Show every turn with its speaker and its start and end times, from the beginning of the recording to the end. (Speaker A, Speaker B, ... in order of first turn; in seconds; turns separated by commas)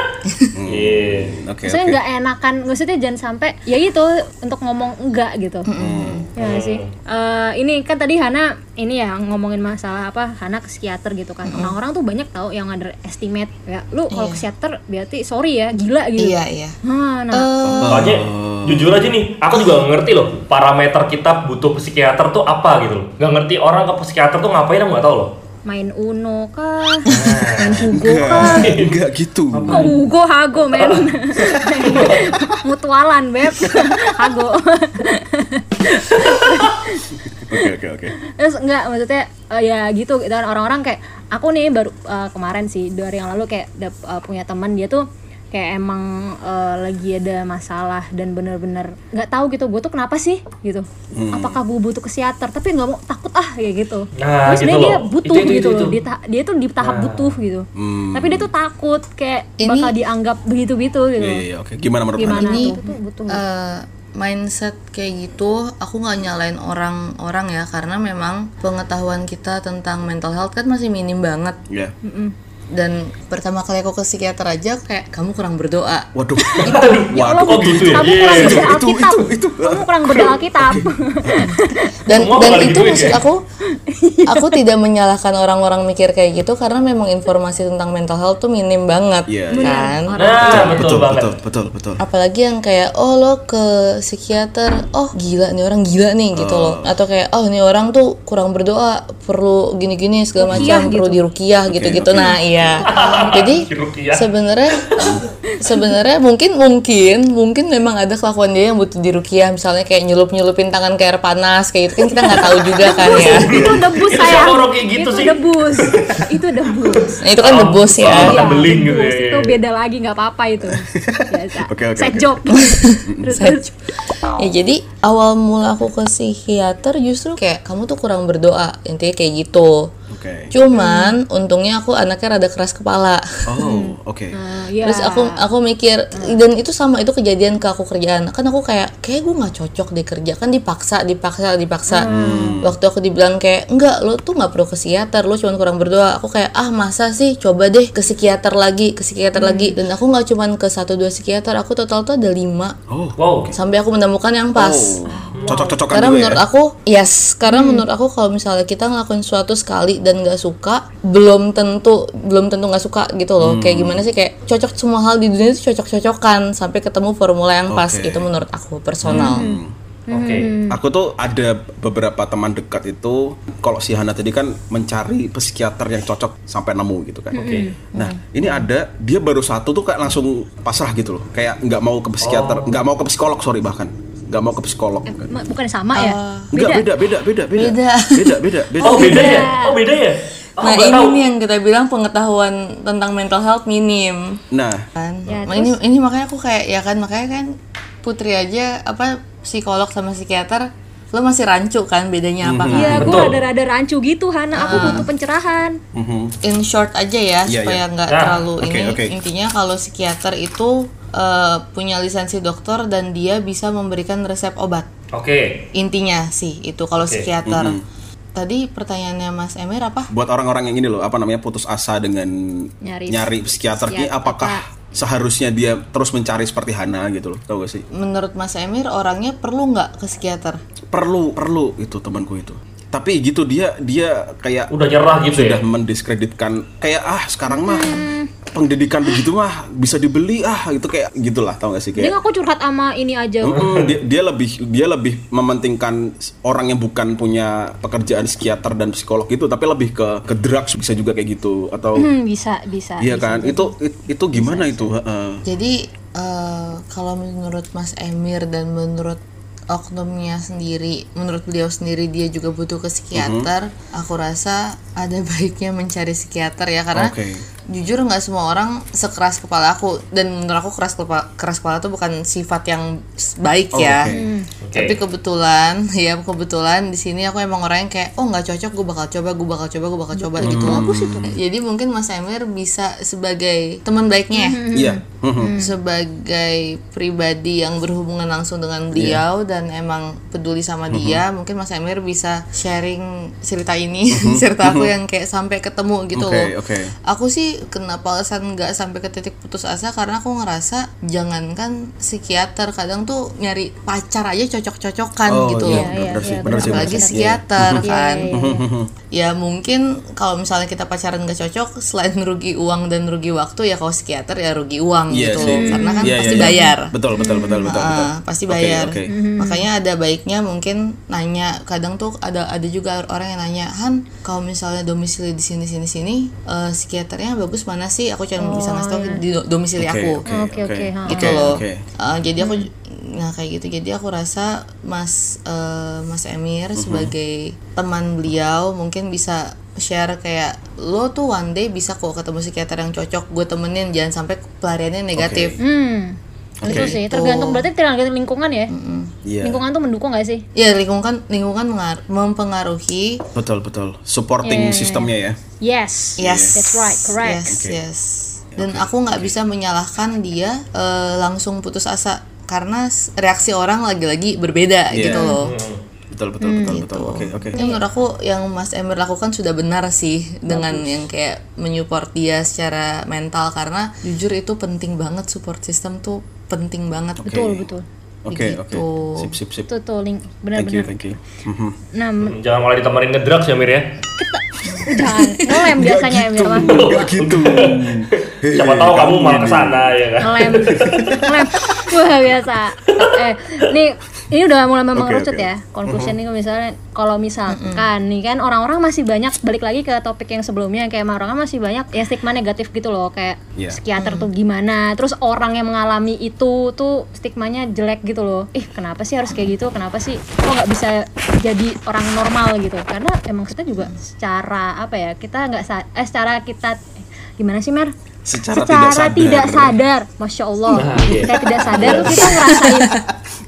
Speaker A: 0.6-2.0, Speaker B: 0.7-1.3, Speaker C: 1.6-5.7, Speaker D: 5.7-6.3, Speaker A: 5.8-6.3, Speaker B: 6.4-6.9, Speaker C: 6.4-17.5, Speaker D: 11.4-11.7, Speaker D: 14.1-14.4, Speaker D: 16.2-16.8, Speaker D: 17.3-18.0, Speaker A: 17.6-19.1, Speaker B: 17.9-25.3, Speaker C: 25.6-28.7, Speaker B: 27.1-28.9, Speaker A: 27.8-29.9, Speaker B: 29.5-30.0, Speaker C: 29.7-37.7, Speaker B: 30.7-32.3, Speaker A: 37.2-38.1, Speaker C: 38.2-61.4, Speaker A: 51.1-51.6, Speaker B: 54.1-56.0, Speaker B: 56.8-57.3, Speaker A: 57.8-58.5, Speaker D: 59.6-59.9, Speaker A: 61.2-62.8, Speaker C: 62.2-63.4, Speaker D: 62.2-71.6, Speaker A: 71.7-71.9, Speaker C: 72.0-72.3, Speaker D: 72.7-76.1, Speaker A: 76.1-81.6, Speaker B: 76.6-78.7, Speaker C: 76.6-82.5, Speaker D: 76.7-77.0, Speaker D: 82.0-83.4, Speaker B: 82.1-83.2, Speaker C: 83.7-84.6, Speaker D: 84.3-90.2, Speaker A: 89.3-89.9, Speaker C: 89.5-90.8, Speaker B: 90.2-91.3, Speaker A: 90.4-92.0, Speaker D: 92.0-113.6, Speaker A: 96.3-96.9, Speaker C: 100.4-101.2, Speaker A: 100.5-100.8, Speaker A: 101.7-102.8, Speaker B: 102.9-104.3, Speaker C: 105.5-105.9, Speaker C: 112.4-117.2, Speaker B: 113.0-115.4, Speaker A: 113.5-113.8, Speaker A: 115.9-116.2, Speaker B: 117.0-119.6, Speaker D: 117.2-118.6, Speaker C: 118.0-123.7, Speaker A: 120.6-123.4, Speaker D: 122.5-123.7, Speaker D: 124.2-129.9, Speaker A: 130.1-130.5, Speaker D: 130.5-133.5, Speaker C: 130.7-131.1, Speaker A: 133.5-134.3, Speaker C: 133.6-135.4, Speaker D: 134.8-152.8, Speaker C: 136.1-136.4, Speaker C: 141.9-142.6, Speaker A: 142.1-142.8, Speaker C: 149.3-149.8, Speaker A: 152.9-153.5, Speaker B: 153.2-153.5, Speaker D: 153.5-155.0, Speaker A: 154.5-156.4, Speaker C: 155.1-155.8, Speaker B: 155.3-155.6, Speaker D: 155.9-169.4, Speaker C: 157.5-157.8, Speaker A: 163.4-164.0, Speaker A: 167.7-168.3, Speaker A: 169.0-169.7, Speaker C: 169.1-170.8, Speaker B: 170.1-170.5, Speaker A: 170.7-185.3, Speaker C: 177.3-178.1, Speaker B: 177.4-177.7, Speaker B: 182.2-182.8, Speaker C: 185.1-186.8, Speaker D: 185.9-186.5, Speaker A: 186.5-189.4, Speaker D: 187.6-189.4, Speaker C: 188.8-189.8, Speaker B: 188.8-191.2, Speaker D: 190.6-194.4, Speaker A: 194.5-194.8, Speaker D: 194.9-203.2, Speaker C: 195.3-195.8, Speaker A: 202.4-203.3, Speaker C: 202.7-205.8, Speaker B: 202.9-203.4, Speaker D: 204.5-205.1, Speaker A: 204.7-205.1, Speaker A: 205.9-206.3, Speaker D: 206.4-214.9, Speaker A: 207.4-207.8, Speaker B: 208.1-208.4, Speaker A: 208.6-209.1, Speaker B: 215.1-215.6, Speaker D: 215.7-217.8, Speaker B: 217.0-217.3, Speaker A: 217.4-217.8, Speaker D: 218.3-220.1, Speaker A: 220.1-227.8, Speaker C: 222.8-224.6, Speaker D: 227.9-230.6, Speaker A: 230.9-234.7, Speaker B: 234.7-235.6, Speaker A: 235.3-242.1, Speaker C: 237.5-238.3, Speaker C: 241.9-243.7, Speaker A: 243.4-252.1, Speaker B: 243.5-243.9, Speaker C: 251.9-253.7, Speaker A: 253.0-255.4, Speaker C: 254.3-254.9, Speaker D: 255.4-259.2, Speaker D: 259.7-267.1, Speaker A: 263.1-263.5, Speaker A: 266.9-267.4, Speaker D: 267.7-274.1, Speaker A: 273.7-274.3, Speaker C: 274.1-274.5, Speaker B: 274.6-275.0, Speaker D: 274.7-284.6, Speaker C: 280.1-281.3, Speaker A: 280.4-281.3, Speaker C: 284.4-285.7, Speaker A: 284.7-285.6, Speaker D: 285.5-296.5, Speaker A: 288.9-289.2, Speaker A: 290.9-291.2, Speaker A: 294.1-294.9, Speaker A: 296.1-296.9, Speaker D: 297.1-308.3, Speaker A: 305.3-308.9, Speaker C: 305.6-308.6, Speaker D: 309.1-316.9, Speaker A: 315.1-319.1, Speaker C: 315.3-317.7, Speaker D: 317.6-330.2, Speaker C: 319.1-319.7, Speaker C: 328.4-329.2, Speaker A: 329.8-331.8, Speaker C: 330.3-331.4, Speaker D: 331.1-345.6, Speaker C: 332.4-332.7, Speaker A: 336.8-337.1, Speaker A: 345.1-345.6, Speaker C: 345.6-348.7, Speaker A: 346.6-347.0, Speaker D: 346.6-347.6, Speaker D: 348.7-349.1, Speaker A: 349.2-349.6, Speaker C: 349.4-350.4, Speaker D: 350.6-353.2, Speaker A: 353.3-355.4, Speaker C: 354.4-357.5, Speaker A: 356.2-356.6, Speaker D: 356.2-365.5, Speaker A: 357.5-357.8, Speaker A: 358.6-359.3, Speaker A: 364.9-365.3, Speaker C: 365.0-365.4, Speaker B: 365.4-365.8, Speaker A: 366.1-367.6, Speaker C: 366.4-366.8, Speaker D: 366.6-377.4, Speaker C: 367.5-367.8, Speaker C: 370.5-371.1, Speaker A: 377.2-377.6, Speaker C: 377.2-377.8, Speaker A: 378.2-379.7, Speaker D: 378.3-379.3, Speaker C: 379.7-380.9, Speaker A: 380.5-381.8, Speaker C: 381.9-382.4, Speaker B: 382.2-383.9, Speaker C: 384.2-387.0, Speaker D: 384.7-385.2, Speaker A: 385.6-389.9, Speaker B: 386.6-391.0, Speaker C: 390.2-416.8, Speaker A: 390.6-391.4, Speaker A: 394.9-396.1, Speaker D: 397.5-397.9, Speaker D: 404.0-404.3, Speaker C: 417.4-417.9, Speaker A: 418.2-419.8, Speaker C: 418.5-423.0, Speaker B: 420.8-422.4, Speaker A: 421.0-423.0, Speaker D: 422.4-423.0